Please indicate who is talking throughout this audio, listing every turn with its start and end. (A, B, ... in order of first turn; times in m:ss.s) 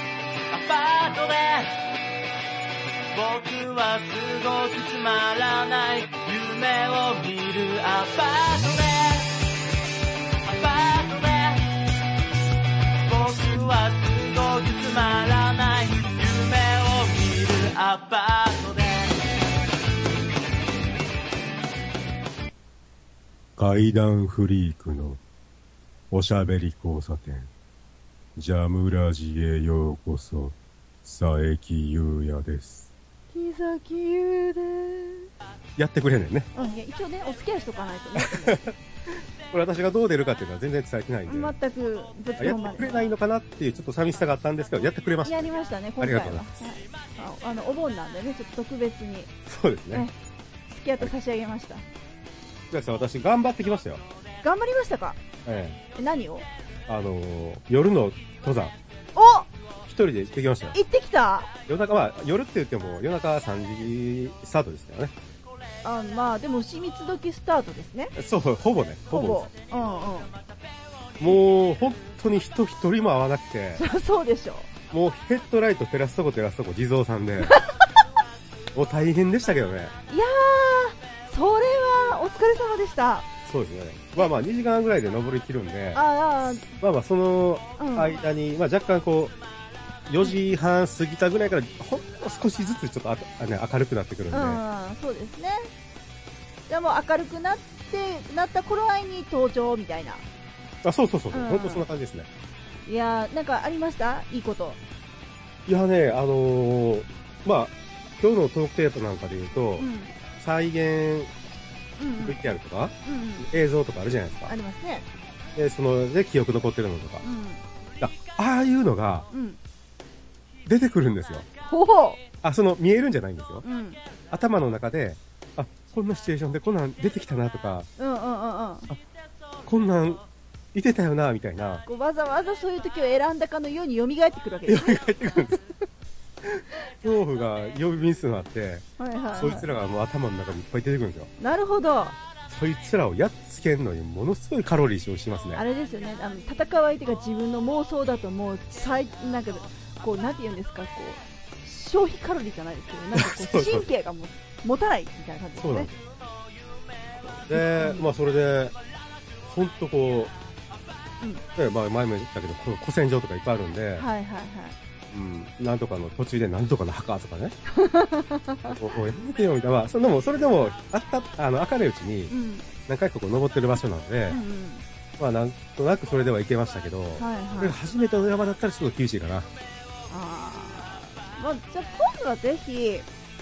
0:00.5-0:01.8 A
0:03.1-0:09.3 A
0:10.4-0:11.7 A
0:13.0-0:19.2 A
0:23.6-0:25.2 B
0:26.1-0:27.5 B
0:28.4-0:32.9 B
0:33.3-0:35.3 C
0:35.8-0:36.5 B
0:36.5-0:38.7 C
0:38.2-0:38.7 B
0:39.5-0:41.5 B
0:41.3-0:43.1 C
0:42.4-0:46.4 B
0:45.2-0:49.3 C
0:49.5-0:50.1 B
0:50.7-0:51.8 C
0:52.7-0:54.0 B
0:54.4-0:55.2 C
0:55.4-0:55.8 B
0:55.9-0:56.4 C
0:56.9-0:58.7 B
0:59.1-0:59.5 C
0:59.8-1:00.8 B
1:00.7-1:01.5 C
1:01.7-1:05.1 B
1:05.8-1:08.1 C
1:08.1-1:09.5 B
1:09.1-1:10.3 C
1:11.2-1:13.8 B
1:13.8-1:14.7 C
1:14.9-1:17.6 B
1:17.4-1:18.0 C
1:18.7-1:19.9 B
1:20.1-1:23.3 C
1:23.4-1:26.0 B
1:25.9-1:26.7 C
1:26.6-1:29.3 B
1:27.8-1:28.2 C
1:30.1-1:34.6 B
1:34.3-1:35.7 C
1:36.7-1:40.2 C
1:40.8-1:42.3 B
1:41.3-1:41.8 C
1:42.9-1:44.8 C
1:45.6-1:49.8 B
1:49.8-1:50.2 C
1:50.4-1:51.3 B
1:52.0-1:52.4 C
1:52.2-1:54.5 B
1:53.0-1:53.5 C
1:54.5-1:55.1 C
1:55.5-1:57.2 B
1:57.2-1:57.6 C
1:58.0-1:59.3 B
1:59.3-1:59.6 C
2:00.6-2:01.4 B
2:01.6-2:02.2 C
2:02.4-2:03.6 B
2:03.6-2:04.0 C
2:04.3-2:07.9 B
2:08.0-2:08.9 C
2:09.6-2:10.2 B
2:10.7-2:11.8 B
2:11.8-2:15.6 C
2:14.7-2:15.6 B
2:17.0-2:21.3 B
2:19.0-2:19.7 C
2:21.4-2:22.2 C
2:22.5-2:25.6 B
2:25.5-2:35.9 C
2:33.1-2:33.8 B
2:35.6-2:35.9 B
2:37.2-2:38.1 C
2:37.4-2:38.8 B
2:39.4-2:40.3 B
2:41.5-2:44.1 B
2:44.0-2:44.8 C
2:45.1-2:47.5 B
2:47.7-2:48.9 C
2:48.7-2:52.3 B
2:52.3-2:52.7 C
2:52.9-2:54.4 B
2:54.3-2:54.8 C
2:55.2-2:59.5 B
2:57.2-2:57.8 C
3:00.1-3:03.1 C